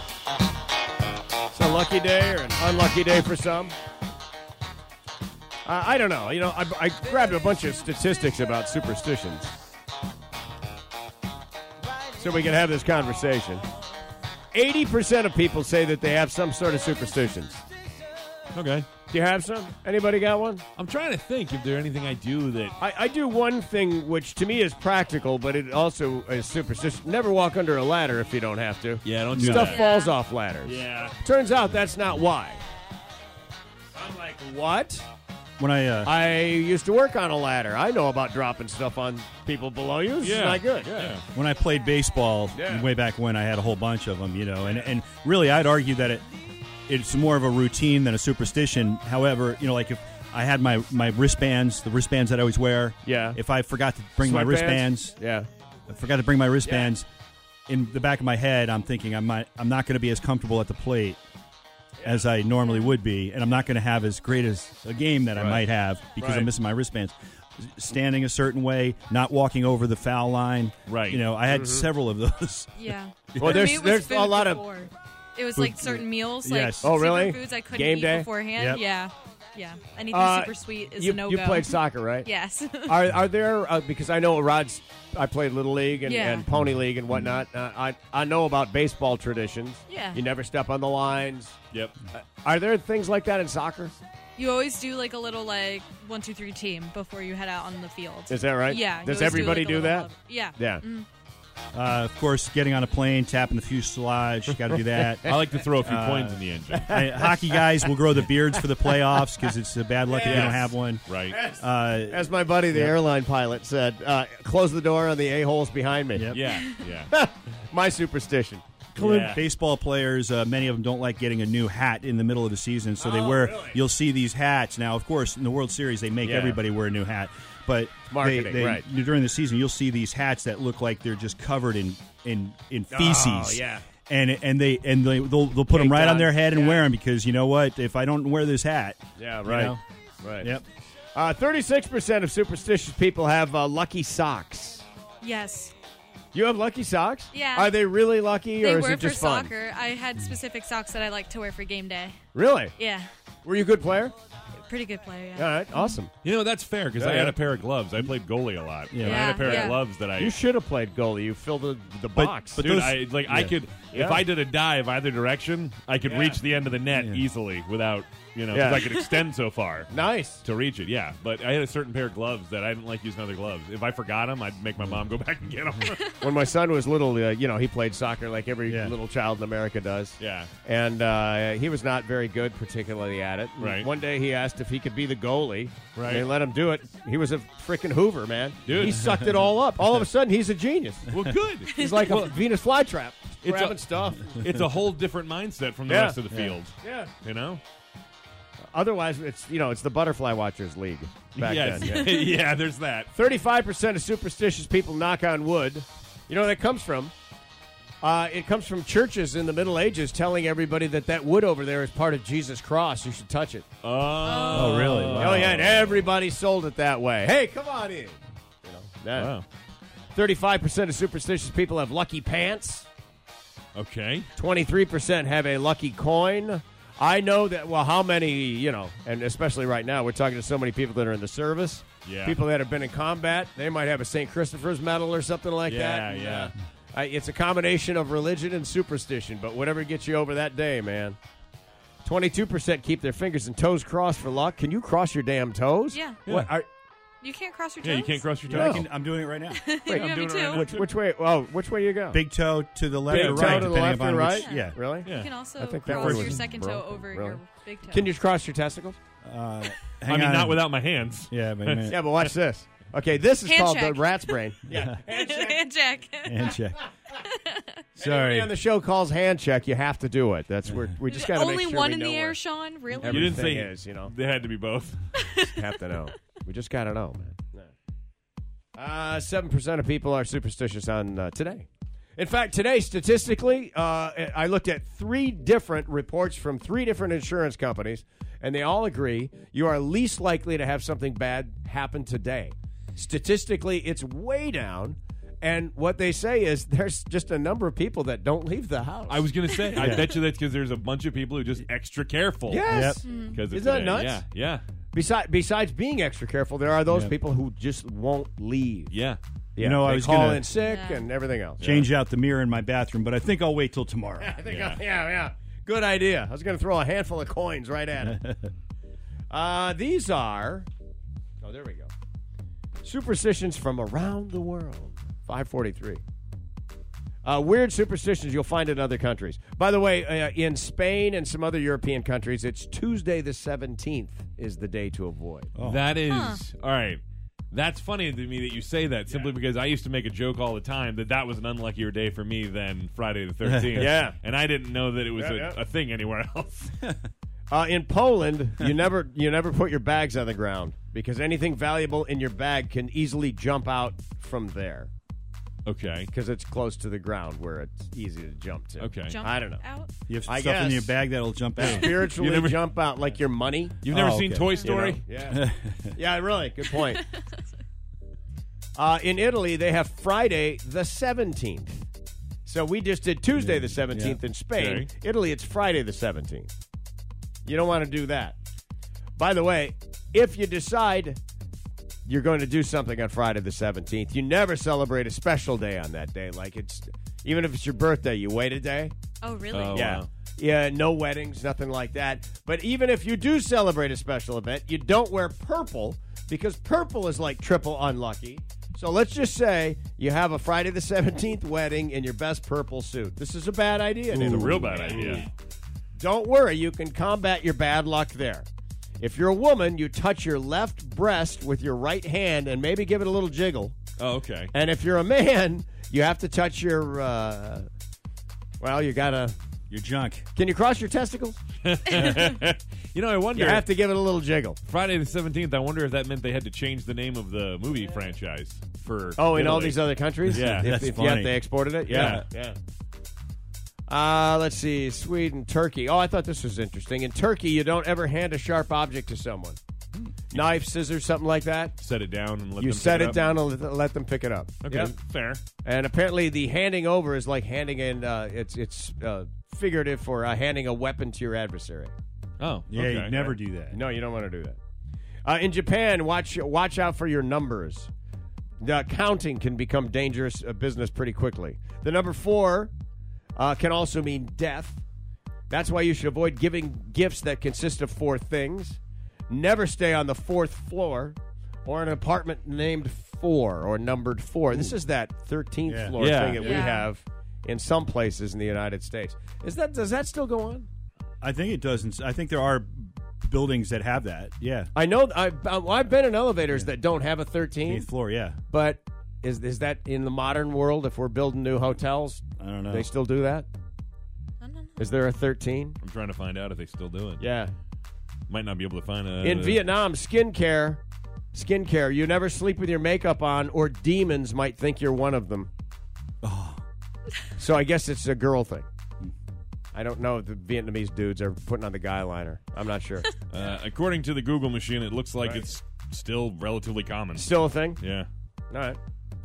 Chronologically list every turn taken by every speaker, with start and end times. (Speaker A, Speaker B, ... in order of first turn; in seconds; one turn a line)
Speaker A: 1.5-3.7
Speaker A: 5.6-9.5
Speaker A: 12.1-13.6
Speaker A: 14.5-17.6
Speaker B: 18.5-18.9
Speaker A: 19.1-20.6
Speaker B: 20.8-22.8
Speaker A: 22.8-32.6
Speaker B: 29.0-29.8
Speaker C: 29.3-29.7
Speaker D: 29.6-30.1
Speaker B: 30.6-31.1
Speaker A: 34.0-35.0
Speaker C: 35.6-36.2
Speaker A: 36.0-41.1
Speaker B: 40.2-41.2
Speaker C: 41.3-46.2
Speaker A: 42.5-42.9
Speaker C: 46.9-55.1
Speaker A: 53.0-53.4
Speaker A: 54.2-55.5
Speaker C: 55.9-57.1
Speaker A: 56.6-56.9
Speaker C: 57.7-61.2
Speaker A: 62.0-62.2
Speaker C: 62.0-73.7
Speaker D: 62.6-62.9
Speaker A: 66.2-66.5
Speaker B: 70.8-71.2
Speaker A: 71.5-71.9
Speaker D: 72.8-83.0
Speaker A: 73.4-74.6
Speaker C: 75.5-77.0
Speaker A: 76.8-78.3
Speaker A: 80.1-82.3
Speaker A: 82.8-91.6
Speaker D: 86.0-86.5
Speaker D: 89.9-90.2
Speaker A: 92.1-94.0
Speaker D: 94.4-101.1
Speaker A: 98.3-100.8
Speaker C: 101.7-113.0
Speaker A: 104.8-105.5
Speaker B: 105.2-106.9
Speaker A: 106.7-107.9
Speaker A: 108.5-109.5
Speaker A: 110.1-110.7
Speaker B: 110.2-111.4
Speaker A: 111.3-118.6
Speaker C: 116.1-116.4
Speaker B: 116.3-117.1
Speaker C: 118.9-139.8
Speaker B: 119.0-119.5
Speaker A: 123.0-123.8
Speaker A: 126.2-126.6
Speaker A: 128.1-128.8
Speaker A: 132.9-133.8
Speaker A: 135.7-136.9
Speaker A: 139.2-140.5
Speaker C: 140.4-140.6
Speaker A: 141.1-144.8
Speaker D: 145.2-145.7
Speaker A: 146.3-149.5
Speaker D: 147.3-147.8
Speaker D: 148.6-152.2
Speaker A: 152.3-152.7
Speaker D: 152.8-153.1
Speaker A: 153.4-154.1
Speaker D: 154.7-156.0
Speaker A: 155.3-156.1
Speaker B: 156.2-160.4
Speaker A: 156.9-157.4
Speaker C: 158.9-159.2
Speaker D: 159.0-159.8
Speaker A: 159.2-162.7
Speaker C: 162.1-163.6
Speaker B: 162.6-176.2
Speaker A: 163.9-164.2
Speaker A: 166.1-166.4
Speaker C: 166.9-167.2
Speaker A: 168.5-169.0
Speaker A: 169.9-170.4
Speaker A: 176.2-191.1
Speaker C: 178.7-178.9
Speaker B: 180.2-180.5
Speaker B: 183.6-183.9
Speaker B: 185.9-186.3
Speaker B: 188.7-189.0
Speaker C: 189.0-189.3
Speaker B: 191.1-192.4
Speaker D: 191.7-192.0
Speaker A: 191.8-194.5
Speaker B: 193.4-197.6
Speaker A: 195.9-196.2
Speaker A: 196.8-197.1
Speaker A: 198.7-202.2
Speaker B: 201.3-203.1
Speaker A: 203.1-207.1
Speaker A: 208.0-213.7
Speaker B: 213.8-216.1
Speaker D: 214.2-214.8
Speaker C: 214.5-215.5
Speaker A: 215.1-219.3
Speaker B: 219.1-219.4
Speaker A: 220.1-222.9
Speaker B: 223.7-224.3
Speaker A: 224.3-241.2
Speaker B: 232.0-232.4
Speaker B: 235.7-236.5
Speaker A: 242.0-246.7
Speaker D: 245.9-246.2
Speaker B: 246.2-246.6
Speaker D: 247.2-248.3
Speaker B: 247.8-248.9
Speaker C: 248.5-249.6
Speaker A: 248.5-248.8
Speaker D: 249.5-250.7
Speaker B: 249.9-250.9
Speaker A: 249.9-252.2
Speaker C: 252.1-254.8
Speaker A: 253.1-259.0
Speaker B: 253.1-253.7
Speaker D: 254.3-258.1
Speaker B: 255.0-255.3
Speaker C: 255.8-256.4
Speaker C: 259.2-260.6
Speaker B: 260.1-261.9
Speaker C: 261.3-262.0
Speaker A: 261.9-265.6
Speaker D: 263.4-264.3
Speaker C: 264.7-265.0
Speaker D: 265.1-266.5
Speaker C: 266.2-266.8
Speaker D: 267.1-267.8
Speaker A: 268.0-272.4
Speaker C: 268.0-268.5
Speaker D: 271.1-273.3
Speaker A: 272.9-274.1
Speaker B: 273.0-275.1
Speaker D: 275.2-275.6
Speaker A: 275.4-277.7
Speaker A: 278.8-299.3
Speaker B: 299.1-304.6
Speaker C: 299.8-300.1
Speaker A: 302.5-304.2
Speaker C: 302.7-303.0
Speaker D: 303.0-303.4
Speaker A: 304.9-308.9
Speaker C: 306.9-307.1
Speaker B: 308.9-309.2
Speaker A: 309.6-311.7
Speaker C: 309.6-310.5
Speaker D: 310.6-311.1
Speaker B: 311.6-311.9
Speaker C: 311.6-314.4
Speaker A: 314.2-318.2
Speaker B: 314.5-314.8
Speaker C: 318.1-318.5
Speaker A: 319.3-320.7
Speaker A: 321.4-321.9
Speaker A: 322.8-326.0
Speaker A: 327.2-335.5
Speaker C: 335.6-336.0
Speaker B: 335.6-346.9
Speaker D: 336.1-336.4
Speaker C: 343.4-343.9
Speaker A: 343.7-344.2
Speaker A: 345.1-345.6
Speaker A: 347.5-354.9
Speaker B: 355.6-356.1
Speaker A: 356.1-359.6
Speaker B: 358.8-359.2
Speaker D: 359.1-359.9
Speaker C: 360.1-362.1
Speaker A: 360.2-361.0
Speaker A: 361.6-363.8
Speaker B: 361.6-362.7
Speaker B: 363.8-365.0
Speaker C: 363.9-366.0
Speaker A: 364.6-367.0
Speaker D: 366.8-367.2
Speaker A: 368.8-371.9
Speaker A: 372.4-376.5
Speaker C: 373.4-374.2
Speaker B: 374.5-374.9
Speaker A: 377.4-378.4
Speaker A: 379.2-381.2
Speaker A: 382.1-388.9
Speaker D: 389.2-390.0
Speaker B: 389.5-390.1
Speaker A: 389.7-405.3
Speaker B: 404.1-405.3
Speaker C: 404.2-404.7
Speaker A: 406.0-408.4
Speaker A: 409.0-413.8
Speaker B: 414.0-414.5
Speaker A: 414.5-417.7
Speaker A: 418.6-419.3
Speaker C: 419.7-420.2
Speaker A: 420.3-421.4
Speaker B: 421.6-423.7
Speaker A: 423.3-424.6
Speaker B: 424.6-430.8
Speaker A: 429.2-432.6
Speaker C: 430.2-432.2
Speaker B: 431.9-432.2
Speaker A: 433.9-439.6
Speaker B: 440.0-440.4
Speaker A: 440.3-441.8
Speaker B: 441.8-443.2
Speaker A: 442.6-444.9
Speaker B: 444.6-445.4
Speaker A: 445.6-451.9
Speaker B: 452.4-453.2
Speaker C: 452.7-453.8
Speaker A: 453.2-454.6
Speaker A: 455.2-457.9
Speaker A: 458.6-462.7
Speaker A: 463.4-464.8
Speaker A: 465.5-480.7
Speaker C: 475.7-476.0
Speaker B: 476.0-476.4
Speaker D: 476.4-476.9
Speaker C: 481.2-484.7
Speaker A: 484.7-487.9
Speaker C: 487.6-488.4
Speaker A: 488.5-493.5
Speaker C: 492.4-492.9
Speaker D: 494.4-495.0
Speaker A: 494.8-495.8
Speaker B: 495.8-497.2
Speaker A: 497.2-497.5
Speaker B: 498.3-499.6
Speaker A: 499.2-500.8
Speaker A: 501.3-505.5
Speaker C: 506.2-506.6
Speaker A: 507.4-508.7
Speaker A: 509.7-513.1
Speaker B: 513.3-518.1
Speaker A: 515.2-515.5
Speaker A: 517.1-517.8
Speaker A: 518.5-518.8